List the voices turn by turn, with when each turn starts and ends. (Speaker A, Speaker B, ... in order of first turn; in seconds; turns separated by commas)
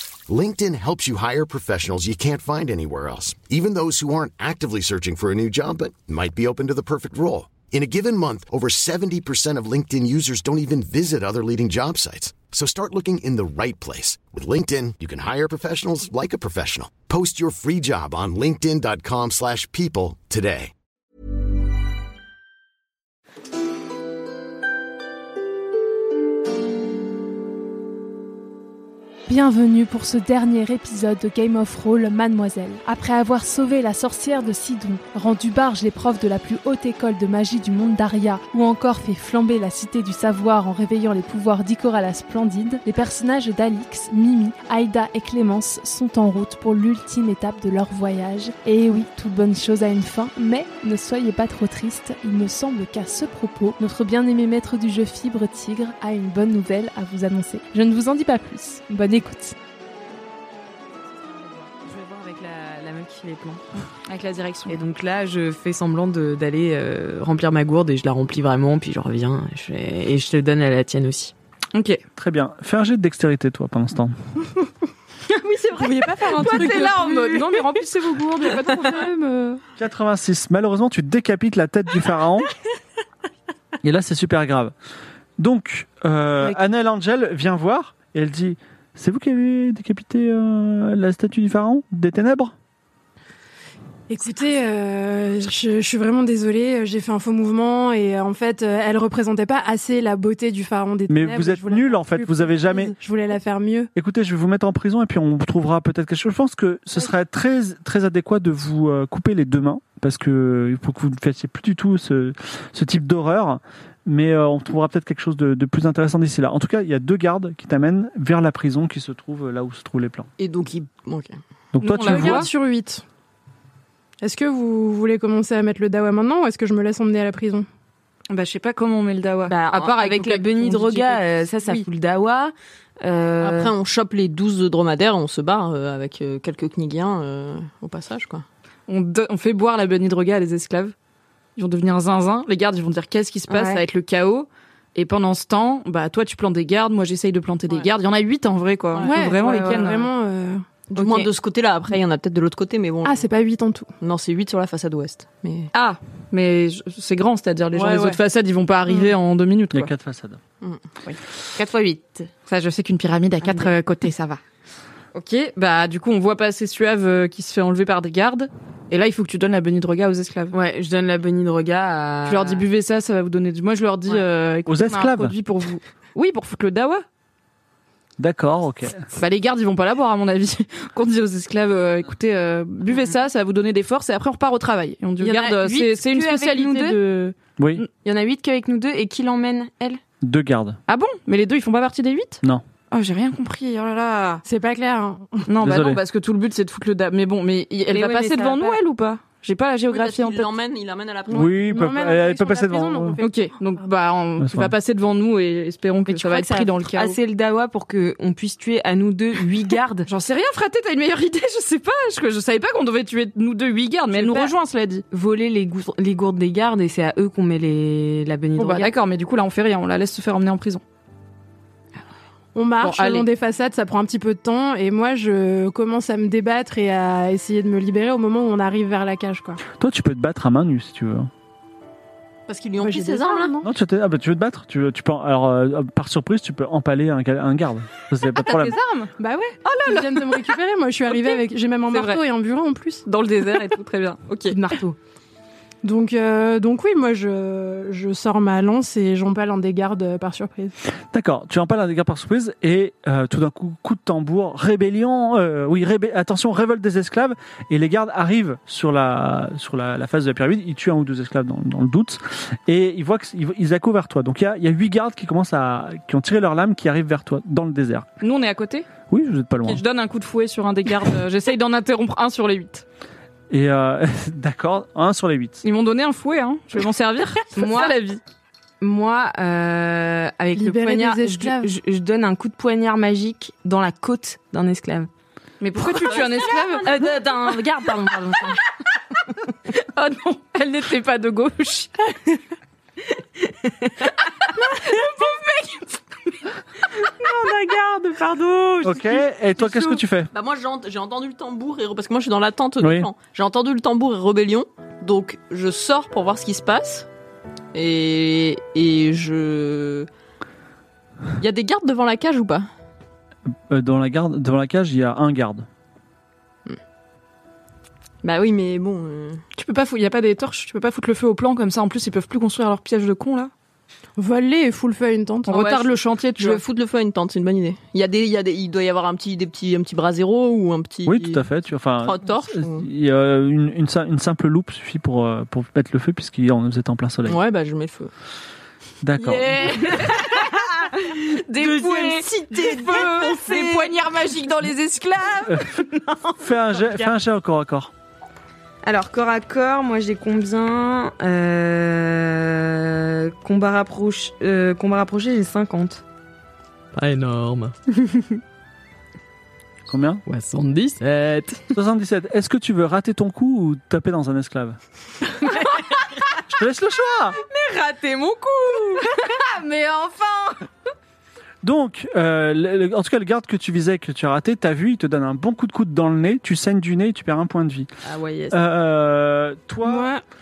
Speaker A: 0.3-20.7, Speaker B: 29.3-59.6, Speaker C: 61.1-63.6, Speaker D: 64.1-64.8, Speaker C: 64.7-71.3, Speaker D: 71.7-72.0, Speaker E: 72.2-74.2, Speaker D: 75.4-79.6, Speaker F: 75.7-77.8, Speaker C: 75.8-76.7, Speaker E: 79.8-82.5, Speaker E: 83.8-84.7, Speaker E: 85.4-92.5, Speaker F: 94.1-103.9, Speaker E: 101.1-103.0, Speaker E: 104.0-120.3, Speaker G: 120.4-121.4, Speaker E: 121.7-122.3, Speaker D: 121.8-122.5, Speaker F: 122.0-123.0, Speaker F: 124.2-127.7, Speaker D: 128.3-131.8, Speaker C: 129.5-133.7, Speaker G: 133.4-138.4, Speaker D: 138.9-140.9, Speaker D: 141.6-150.1, Speaker G: 148.9-149.2, Speaker F: 149.0-150.8, Speaker C: 149.4-150.1, Speaker G: 150.9-153.3, Speaker C: 150.9-151.3, Speaker F: 153.0-153.9, Speaker G: 154.0-155.7, Speaker D: 155.7-159.9, Speaker G: 157.7-158.2, Speaker E: 159.7-160.4, Speaker C: 161.6-162.3, Speaker D: 162.5-164.4, Speaker C: 163.4-163.7, Speaker D: 165.1-170.6, Speaker C: 170.5-172.6, Speaker D: 172.3-177.0, Speaker E: 174.7-175.3, Speaker E: 178.2-179.1, Speaker D: 179.2-187.9, Speaker C: 185.2-187.0, Speaker E: 187.6-187.8, Speaker C: 188.0-190.0, Speaker E: 190.2-190.8, Speaker D: 190.9-192.4, Speaker D: 192.9-194.4, Speaker F: 194.5-195.5, Speaker D: 195.5-200.5, Speaker E: 195.6-196.0, Speaker C: 197.9-198.8, Speaker G: 199.9-201.7, Speaker E: 201.3-203.2, Speaker F: 201.4-203.6, Speaker D: 203.2-207.2, Speaker E: 204.4-204.7, Speaker C: 206.1-210.1, Speaker D: 210.1-215.1, Speaker C: 214.1-214.5, Speaker C: 215.1-218.9, Speaker D: 218.6-220.8, Speaker F: 222.6-229.6, Speaker D: 222.8-223.3, Speaker E: 229.7-231.3, Speaker G: 232.5-233.6, Speaker F: 232.8-233.7, Speaker E: 233.6-238.8, Speaker D: 238.3-239.1, Speaker F: 239.2-243.1, Speaker D: 239.7-242.2, Speaker D: 243.1-244.7, Speaker C: 244.5-245.0, Speaker F: 245.8-250.8, Speaker E: 251.1-268.1, Speaker D: 268.2-268.9, Speaker E: 269.1-269.8, Speaker D: 269.6-272.8, Speaker E: 273.5-275.6, Speaker D: 275.6-278.2, Speaker C: 277.5-277.9, Speaker C: 278.8-285.1, Speaker F: 280.5-281.7, Speaker D: 285.6-287.1, Speaker G: 286.0-287.1, Speaker C: 286.8-288.6, Speaker D: 289.7-292.1, Speaker D: 294.7-296.0, Speaker F: 297.2-300.0, Speaker E: 298.8-300.3, Speaker G: 300.3-307.1, Speaker E: 302.8-303.1, Speaker G: 307.7-310.1, Speaker G: 311.4-312.7, Speaker E: 313.5-315.7, Speaker G: 318.2-319.4, Speaker D: 319.6-323.5, Speaker F: 324.2-325.7, Speaker D: 325.5-326.6, Speaker G: 325.6-325.9, Speaker G: 326.4-331.4, Speaker E: 331.1-337.4, Speaker G: 332.0-332.9, Speaker G: 337.2-338.1, Speaker E: 339.0-339.8, Speaker C: 339.3-346.4, Speaker G: 339.5-340.2, Speaker D: 340.0-340.4, Speaker D: 341.1-345.7, Speaker E: 345.5-345.7, Speaker E: 346.4-347.9, Speaker C: 348.8-356.0, Speaker C: 356.9-357.8, Speaker E: 359.9-360.2, Speaker C: 360.3-361.7, Speaker E: 361.7-364.8, Speaker C: 365.5-366.1, Speaker E: 366.5-367.4, Speaker C: 367.4-370.7, Speaker E: 371.6-377.9, Speaker C: 378.0-378.6, Speaker E: 378.5-380.1, Speaker F: 379.8-380.2